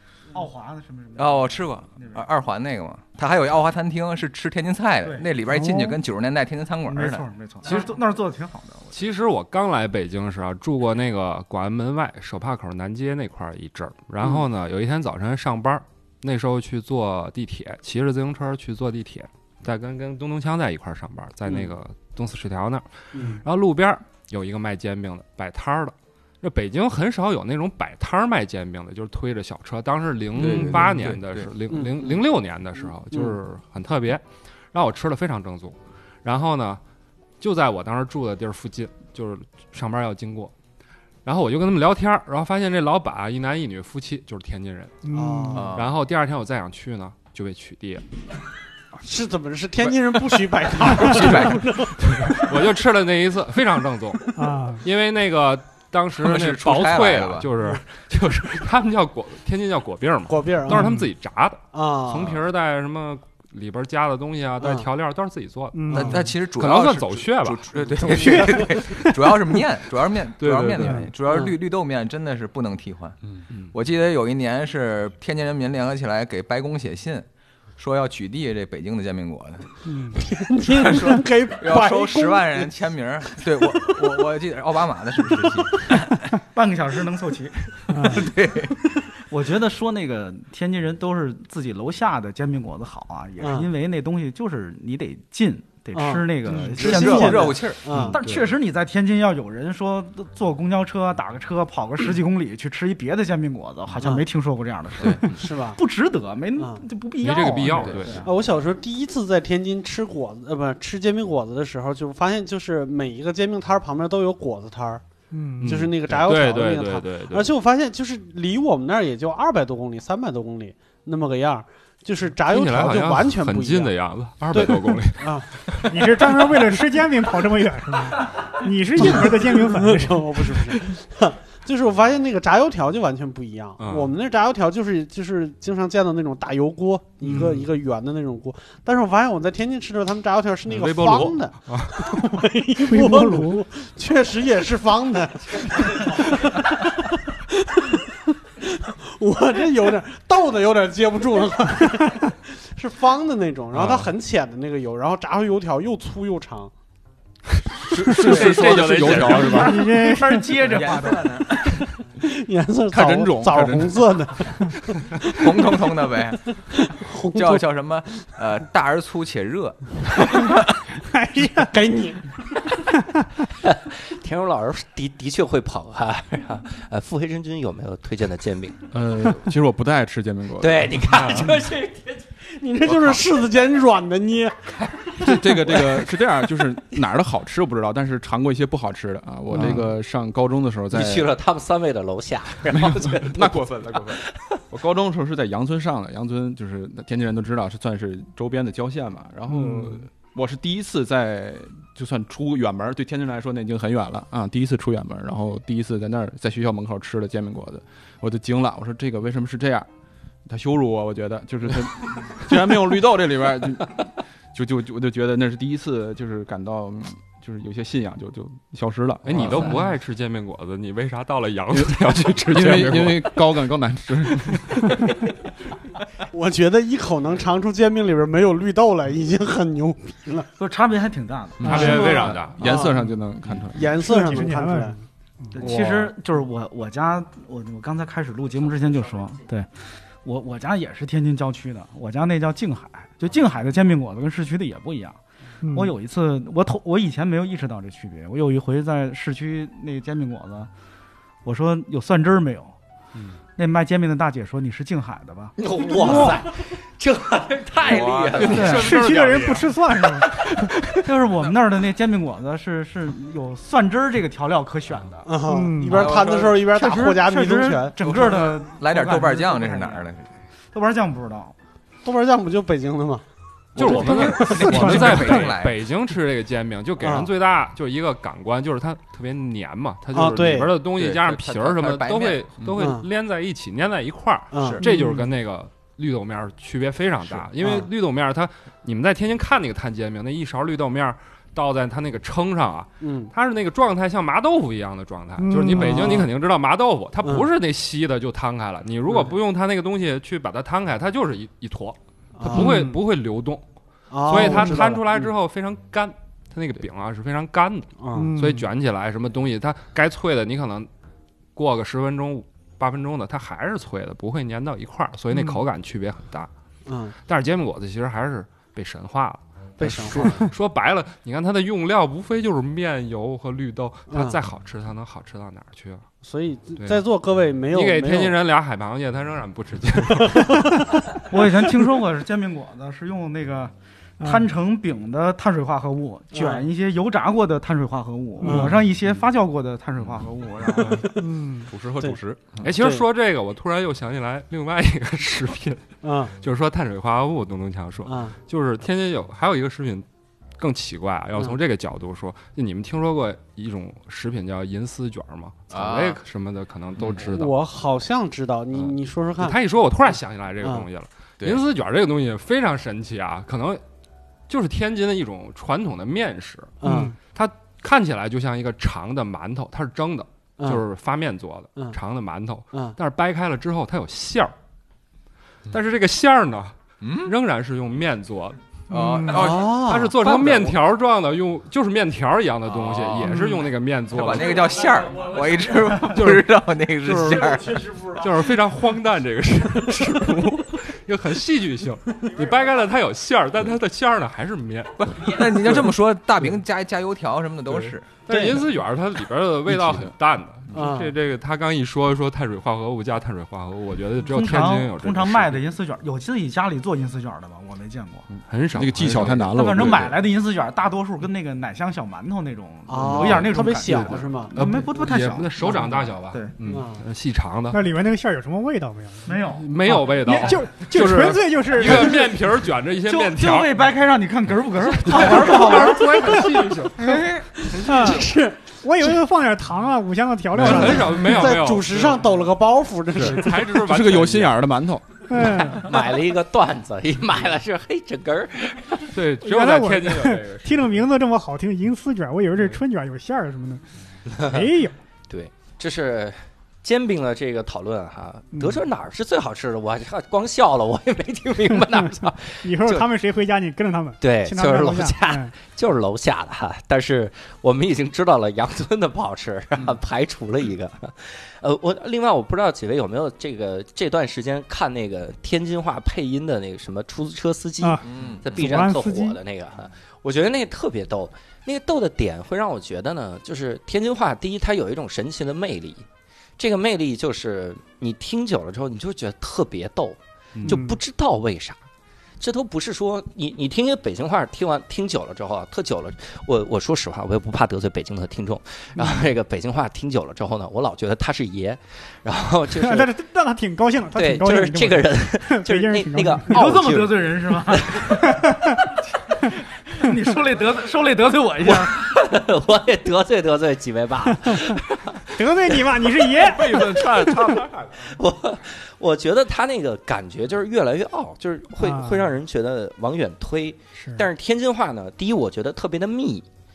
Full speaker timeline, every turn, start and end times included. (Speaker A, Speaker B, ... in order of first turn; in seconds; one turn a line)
Speaker A: 0.3-2.2
Speaker B: 1.2-7.3
Speaker C: 5.5-6.0
Speaker A: 6.9-9.0
Speaker D: 8.9-22.9
Speaker E: 23.1-23.4
Speaker D: 23.4-36.8
Speaker B: 30.4-31.5
Speaker E: 31.7-32.1
Speaker E: 33.1-33.4
Speaker D: 37.4-40.5
Speaker D: 41.2-45.0
Speaker C: 45.0-45.7
Speaker E: 45.1-45.8
Speaker B: 45.5-45.9
Speaker D: 45.8-48.0
Speaker E: 49.0-52.7
Speaker B: 50.9-51.9
Speaker D: 52.0-69.6
Speaker C: 54.4-54.8
Speaker B: 56.2-57.5
Speaker E: 60.3-61.0
Speaker C: 60.7-61.1
Speaker E: 61.7-62.4
Speaker E: 64.6-64.9
Speaker C: 65.7-66.3
Speaker B: 65.9-73.2
Speaker D: 70.4-71.1
Speaker C: 70.8-71.1
Speaker E: 71.3-71.5
Speaker B: 73.7-79.7
Speaker C: 79.9-80.2
Speaker E: 80.2-82.7
Speaker B: 80.7-86.1
Speaker A: 86.5-88.2
Speaker C: 87.9-88.3
Speaker B: 88.1-88.7
Speaker A: 89.3-108.3
Speaker E: 93.4-93.7
Speaker E: 95.9-98.2
Speaker B: 96.7-97.8
Speaker D: 97.9-98.5
Speaker E: 104.0-104.2
Speaker B: 105.0-105.3
Speaker E: 105.2-105.8
Speaker E: 106.6-106.8
Speaker D: 107.2-108.2
Speaker E: 108.2-115.0
Speaker C: 115.3-115.8
Speaker D: 115.6-117.5
Speaker E: 115.6-123.9
Speaker D: 122.5-126.2
Speaker E: 124.5-125.5
Speaker C: 125.9-130.8
Speaker E: 129.0-148.1
Speaker D: 133.8-134.1
Speaker D: 137.2-137.6
Speaker C: 137.3-137.6
Speaker D: 140.7-142.3
Speaker C: 142.8-143.6
Speaker E: 148.6-156.7
Speaker F: 153.7-154.1
Speaker F: 157.9-159.9
Speaker D: 158.0-159.6
Speaker A: 158.3-161.5
Speaker C: 159.5-160.5
Speaker B: 160.6-161.5
Speaker E: 162.2-165.8
Speaker F: 162.9-164.0
Speaker B: 165.4-166.4
Speaker E: 166.8-167.6
Speaker B: 167.3-170.1
Speaker C: 171.1-171.7
Speaker E: 171.4-172.3
Speaker G: 173.6-178.8
Speaker F: 178.9-181.3
Speaker G: 180.6-182.2
Speaker E: 182.5-185.3
Speaker F: 185.2-191.3
Speaker G: 190.9-194.0
Speaker F: 192.7-209.9
Speaker C: 199.5-200.0
Speaker F: 210.5-219.8
Speaker D: 219.2-223.3
Speaker F: 221.7-224.9
Speaker E: 226.3-230.5
Speaker A: 230.6-232.2
Speaker D: 231.6-232.6
Speaker E: 231.7-233.0
Speaker C: 231.7-232.2
Speaker F: 231.8-234.0
Speaker E: 233.7-235.0
Speaker C: 233.9-235.0
Speaker A: 235.5-245.2
Speaker F: 235.6-236.1
Speaker C: 245.6-245.9
Speaker A: 245.7-250.7
Speaker A: 251.4-252.7
Speaker A: 253.6-255.6
Speaker G: 255.6-258.7
Speaker C: 255.9-256.4
Speaker B: 257.8-258.7
Speaker D: 258.3-260.9
Speaker A: 258.5-258.9
Speaker C: 258.8-260.9
Speaker A: 261.1-265.3
Speaker E: 265.2-268.0
Speaker C: 265.5-266.1
Speaker B: 265.9-266.6
Speaker A: 266.0-270.1
Speaker B: 268.0-270.3
Speaker A: 270.7-271.6
Speaker E: 272.0-275.5
Speaker D: 273.8-303.6
Speaker B: 273.8-275.8
Speaker E: 277.0-277.3
Speaker E: 280.1-280.7
Speaker B: 280.9-282.8
Speaker E: 282.8-283.1
Speaker E: 284.5-284.8
Speaker C: 284.8-285.3
Speaker E: 287.6-287.9
Speaker E: 293.0-293.3
Speaker C: 295.4-296.3
Speaker E: 295.7-296.3
Speaker E: 302.4-302.9
Speaker C: 302.5-303.0
Speaker E: 304.1-305.3
Speaker D: 304.3-310.9
Speaker C: 304.4-304.8
Speaker E: 308.0-308.3
Speaker C: 308.1-308.7
Speaker D: 311.6-316.5
Speaker C: 315.3-315.6
Speaker E: 316.9-317.1
Speaker D: 317.3-326.1
Speaker E: 319.8-320.5
Speaker E: 324.1-324.4
Speaker E: 326.2-328.4
Speaker D: 326.8-327.0
Speaker D: 327.7-330.7
Speaker A: 331.3-341.1
Speaker C: 334.2-334.5
Speaker E: 336.3-336.7
Speaker C: 338.4-338.7
Speaker E: 338.4-338.8
Speaker E: 340.8-341.2
Speaker C: 341.1-341.7
Speaker F: 341.7-342.6
Speaker D: 342.6-345.8
Speaker E: 342.8-343.1
Speaker E: 346.0-346.3
Speaker D: 346.4-350.1
Speaker E: 348.1-348.4
Speaker D: 350.6-357.5
Speaker B: 355.7-356.2
Speaker E: 357.2-359.6
Speaker D: 358.7-363.8
Speaker E: 360.6-360.9
Speaker D: 364.5-374.5
Speaker E: 366.8-367.1
Speaker C: 366.9-367.1
Speaker E: 370.6-370.8
Speaker D: 375.7-378.6
Speaker B: 377.0-377.3
Speaker B: 378.9-380.8
Speaker D: 379.2-384.8
Speaker E: 379.3-380.2
Speaker B: 382.7-383.4
Speaker C: 383.3-383.6
Speaker B: 384.1-387.8
Speaker D: 386.1-386.5
Speaker E: 387.0-388.5
Speaker D: 387.1-387.4
Speaker D: 388.1-395.8
Speaker B: 395.0-398.2
Speaker D: 397.7-405.7
Speaker E: 398.3-398.7
Speaker F: 399.7-400.1
Speaker E: 400.7-401.1
Speaker A: 404.3-408.3
Speaker D: 408.5-410.0
Speaker F: 408.7-410.2
Speaker A: 409.5-416.5
Speaker E: 412.9-414.6
Speaker D: 413.9-417.8
Speaker E: 416.6-417.0
Speaker C: 417.7-419.3
Speaker A: 419.3-419.7
Speaker D: 419.6-423.7
Speaker C: 419.8-422.3
Speaker A: 423.1-426.3
Speaker D: 425.0-427.2
Speaker E: 426.4-429.1
Speaker A: 427.0-427.4
Speaker C: 427.8-431.4
Speaker D: 430.6-432.3
Speaker F: 430.6-430.9
Speaker E: 430.7-433.8
Speaker D: 433.1-434.6
Speaker F: 433.2-435.2
Speaker C: 435.3-436.0
Speaker G: 435.7-439.1
Speaker D: 439.1-440.9
Speaker C: 439.4-443.8
Speaker G: 444.4-444.6
Speaker C: 444.4-444.9
Speaker G: 445.3-453.1
Speaker C: 448.5-448.9
Speaker C: 452.5-455.5
Speaker G: 454.2-476.1
Speaker C: 467.8-469.4
Speaker B: 468.0-468.4
Speaker G: 476.6-481.8
Speaker C: 480.7-481.0
Speaker G: 482.4-493.1
Speaker C: 492.8-496.6
Speaker G: 494.1-498.1
Speaker A: 496.5-498.0
Speaker C: 498.3-498.6
Speaker A: 500.0-502.0
Speaker G: 501.7-516.5
Speaker C: 504.4-506.8
Speaker F: 506.9-507.6
Speaker C: 511.8-512.3
Speaker C: 514.0-514.2